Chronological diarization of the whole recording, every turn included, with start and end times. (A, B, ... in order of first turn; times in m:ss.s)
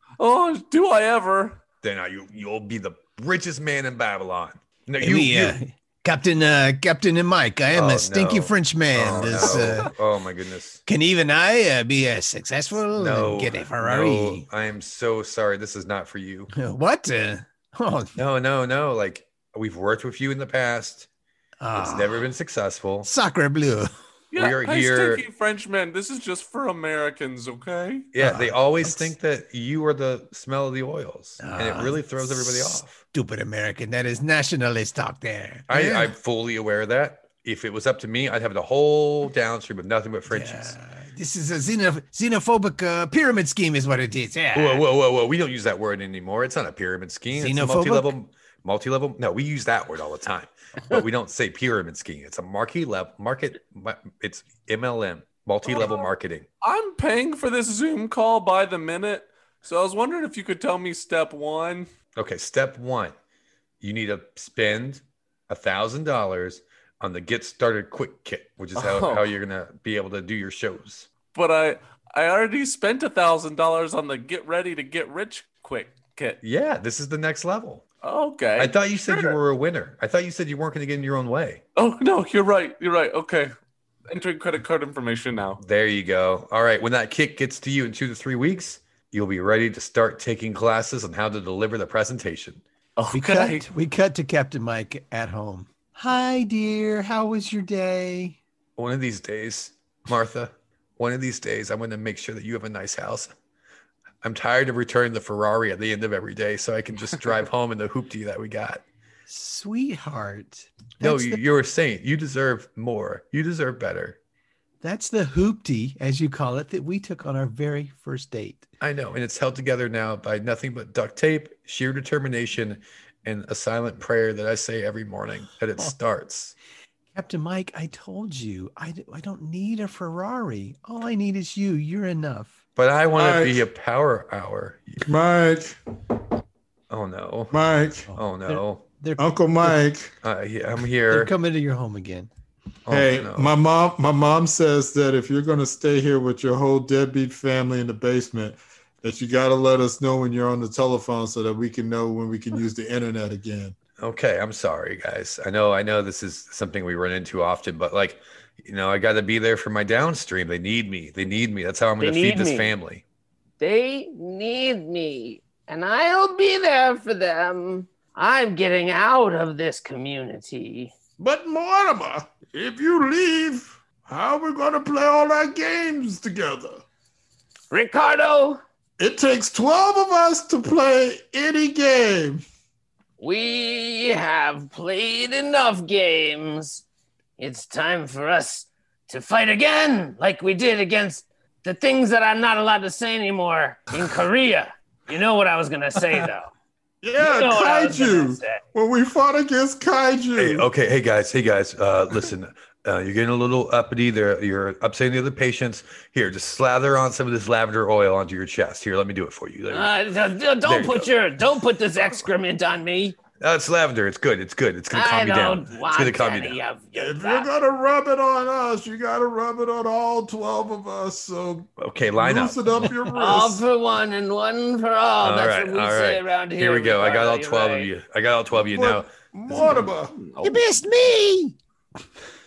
0:00.2-0:01.6 A
0:01.8-0:05.6 B
0:05.0-0:09.9 C
0:07.7-0:10.8 B
0:09.3-0:09.8 A
0:10.8-0:14.4 C
0:12.9-0:16.5 B
0:16.5-0:18.2 C
0:18.2-0:21.1 B
0:21.6-0:22.2 C
0:21.8-0:23.1 B
0:23.0-0:23.9 C
0:24.3-0:28.1 A
0:24.4-0:25.2 B
0:28.1-0:33.0 B
0:28.2-0:29.1 C
0:31.4-0:36.1 C
0:35.7-0:40.8 B
0:40.3-0:44.8 C
0:44.5-0:56.4 B
0:47.3-0:48.1 C
0:55.7-0:56.0 D
0:56.6-1:01.9 A
1:02.1-1:03.1 B
1:03.8-1:11.1 B
1:08.8-1:09.3 A
1:11.3-1:16.4 A
1:16.4-1:17.8 B
1:18.0-1:19.4 A
1:18.6-1:21.6 B
1:21.7-1:23.5 A
1:24.1-1:25.6 A
1:25.6-1:32.6 B
1:33.0-1:33.6 A
1:33.1-1:38.4 C
1:38.8-1:43.3 B
1:44.2-1:48.8 B
1:49.3-1:51.4 C
1:51.0-1:54.2 B
1:54.8-1:58.7 C
1:58.8-2:06.5 B
2:07.1-2:12.6 C
2:12.8-2:15.0 B
2:13.2-2:13.6 E
2:15.0-2:15.7 E
2:16.9-2:17.6 B
2:17.5-2:18.1 E
2:18.1-2:19.8 C
2:18.1-2:18.8 B
2:19.2-2:20.1 E
2:20.2-2:21.3 B
2:21.1-2:22.3 C
2:22.9-2:23.5 B
2:22.9-2:33.7 E
2:34.0-2:43.0 B
2:42.0-2:42.7 D
2:43.6-2:50.9 D
2:51.2-2:56.8 E
2:57.7-2:58.6 D
2:59.0-3:02.4 E
3:03.2-3:06.8 D
3:07.4-3:16.5 D
3:17.0-3:20.7 E
3:17.2-3:18.6 D
3:20.4-3:30.0 B
3:29.7-3:33.2 D
3:30.6-3:31.1 B
3:33.4-3:36.6 B
3:34.9-3:37.5 D
3:36.9-3:43.6 E
3:41.8-3:42.9 B
3:43.1-3:47.9 D
3:45.2-3:49.1 B
3:48.6-3:50.2 E
3:49.5-3:50.6 A
3:50.4-3:51.5 C